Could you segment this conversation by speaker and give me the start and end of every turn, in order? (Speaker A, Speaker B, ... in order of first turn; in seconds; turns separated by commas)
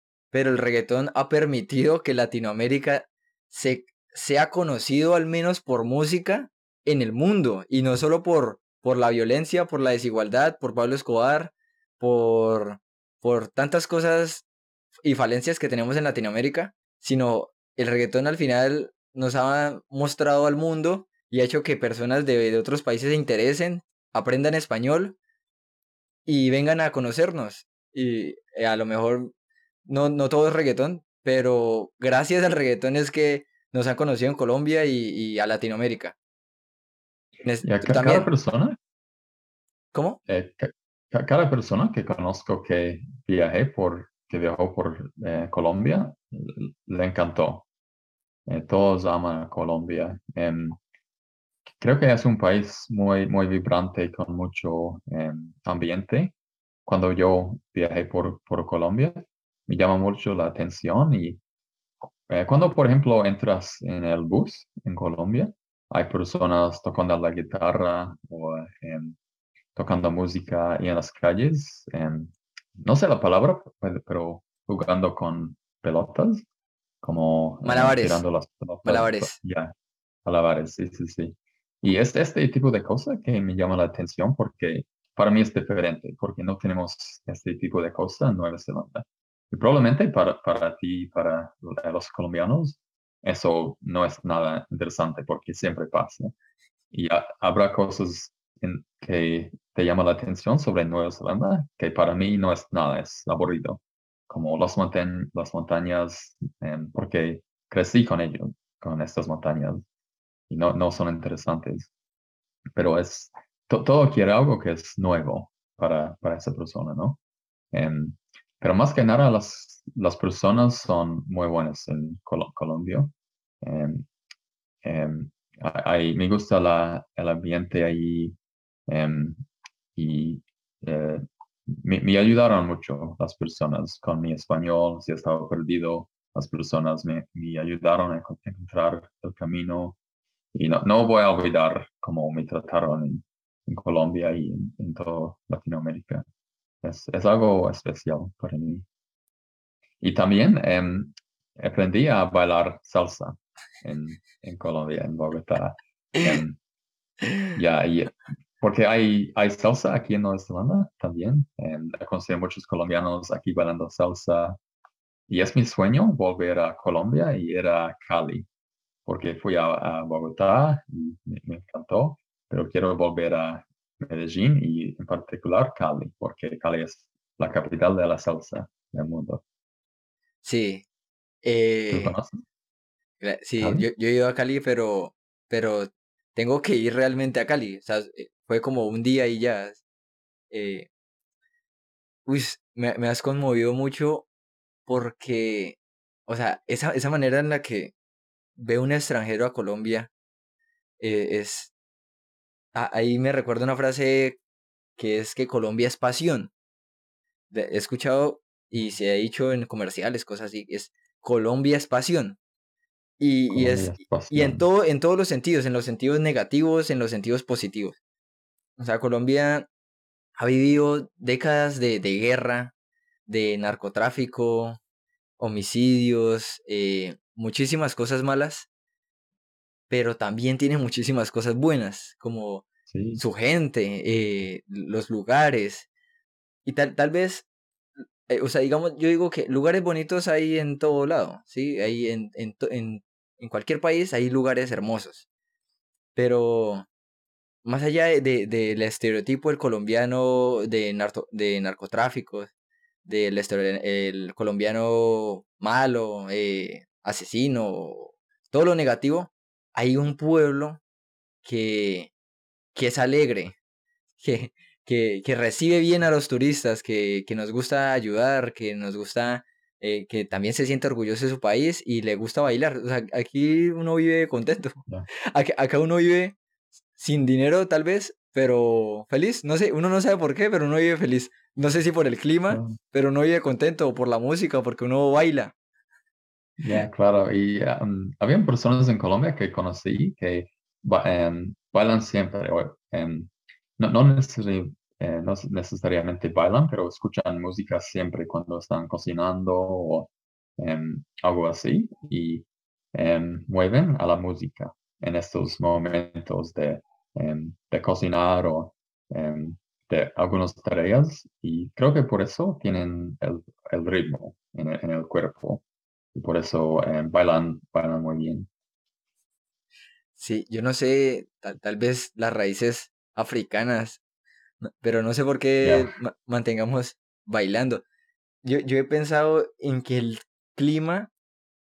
Speaker A: 0.3-14.5, Speaker A: 15.0-25.2, Speaker A: 26.3-29.3, Speaker A: 29.9-36.2, Speaker A: 37.4-38.3, Speaker B: 37.6-38.8, Speaker A: 39.9-40.2, Speaker B: 40.3-47.7, Speaker B: 48.5-50.8, Speaker B: 51.7-56.3, Speaker B: 56.9-61.4, Speaker B: 62.3-69.2, Speaker B: 69.8-76.5, Speaker B: 77.0-79.7, Speaker A: 77.6-78.2, Speaker A: 78.8-79.4, Speaker B: 80.2-96.3, Speaker B: 96.9-109.8, Speaker B: 110.5-111.9, Speaker B: 112.7-117.2, Speaker B: 117.7-124.1, Speaker B: 124.8-128.4, Speaker B: 128.9-129.4, Speaker B: 129.9-140.0, Speaker B: 140.5-146.2, Speaker B: 146.8-148.9, Speaker B: 150.0-156.6, Speaker B: 157.6-164.6, Speaker B: 165.3-168.5, Speaker B: 169.1-179.4, Speaker A: 180.4-180.8, Speaker A: 181.4-182.2, Speaker B: 181.9-182.4, Speaker A: 183.2-189.8, Speaker B: 183.6-183.9, Speaker A: 190.5-190.9, Speaker A: 192.3-194.3, Speaker A: 194.9-197.9, Speaker A: 198.6-200.1, Speaker A: 201.0-201.7, Speaker A: 202.7-204.4, Speaker A: 205.0-206.5, Speaker A: 207.5-212.4, Speaker A: 213.2-218.0, Speaker B: 213.5-214.7, Speaker A: 218.8-219.7, Speaker A: 220.4-222.7, Speaker A: 223.3-224.8, Speaker A: 225.4-228.7, Speaker A: 229.9-232.7, Speaker B: 232.9-233.2, Speaker A: 233.2-235.9, Speaker A: 236.7-237.5, Speaker A: 238.3-245.3, Speaker A: 246.2-246.9, Speaker A: 247.7-252.5, Speaker A: 253.1-260.8, Speaker A: 261.4-262.1, Speaker A: 262.8-263.6, Speaker A: 264.2-276.4, Speaker A: 277.0-285.5, Speaker B: 282.5-282.8, Speaker B: 286.6-315.6, Speaker B: 316.1-318.5, Speaker A: 320.2-324.0, Speaker A: 324.6-327.8, Speaker B: 325.6-325.9, Speaker A: 328.4-331.1